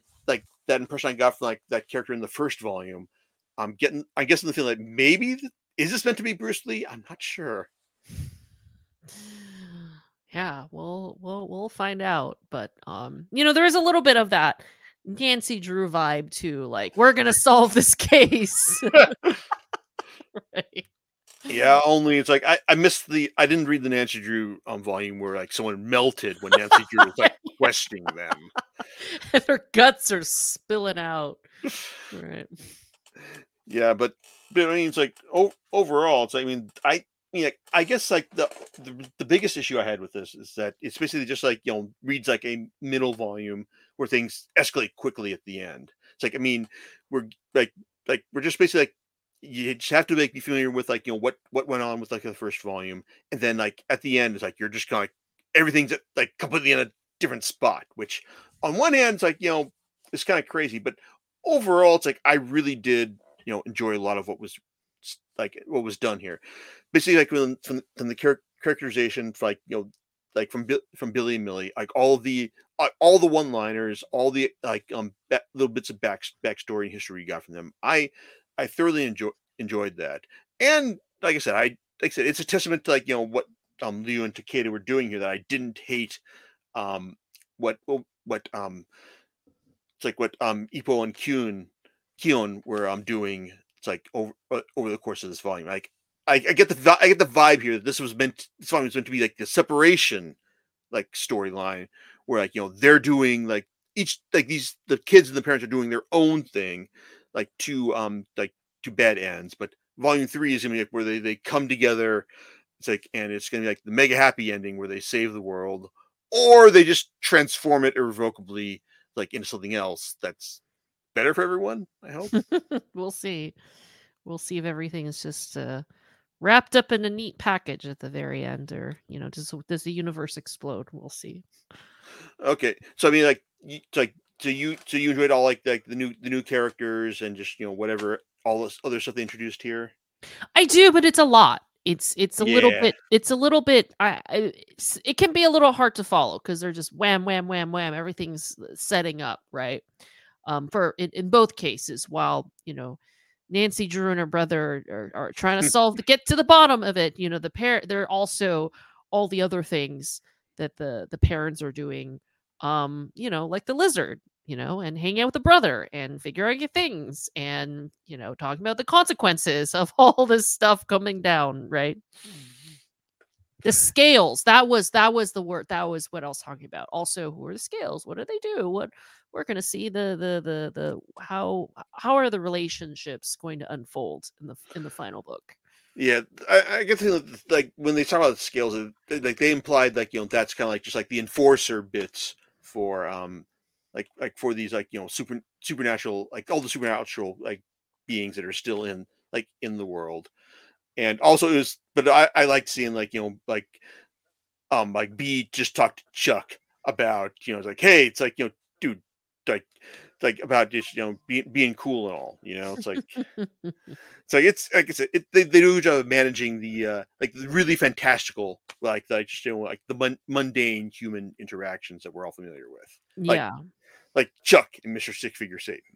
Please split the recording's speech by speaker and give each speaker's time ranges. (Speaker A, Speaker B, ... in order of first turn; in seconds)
Speaker A: 0.3-7.7, 21.5-28.5, 33.7-86.2, 86.7-88.9, 90.0-100.4, 100.9-112.3, 112.8-120.6, 121.2-122.3, 132.4-139.9, 142.4-142.9, 186.0-200.3, 201.0-203.8, 204.7-213.2, 214.3-223.4, 224.2-225.8
Speaker B: 10.3-19.1, 20.4-20.9, 26.7-27.6, 29.0-31.4, 32.1-32.6, 122.3-123.6, 124.2-125.8, 126.4-131.4, 140.6-149.8, 150.4-172.0, 173.6-185.6, 223.2-223.6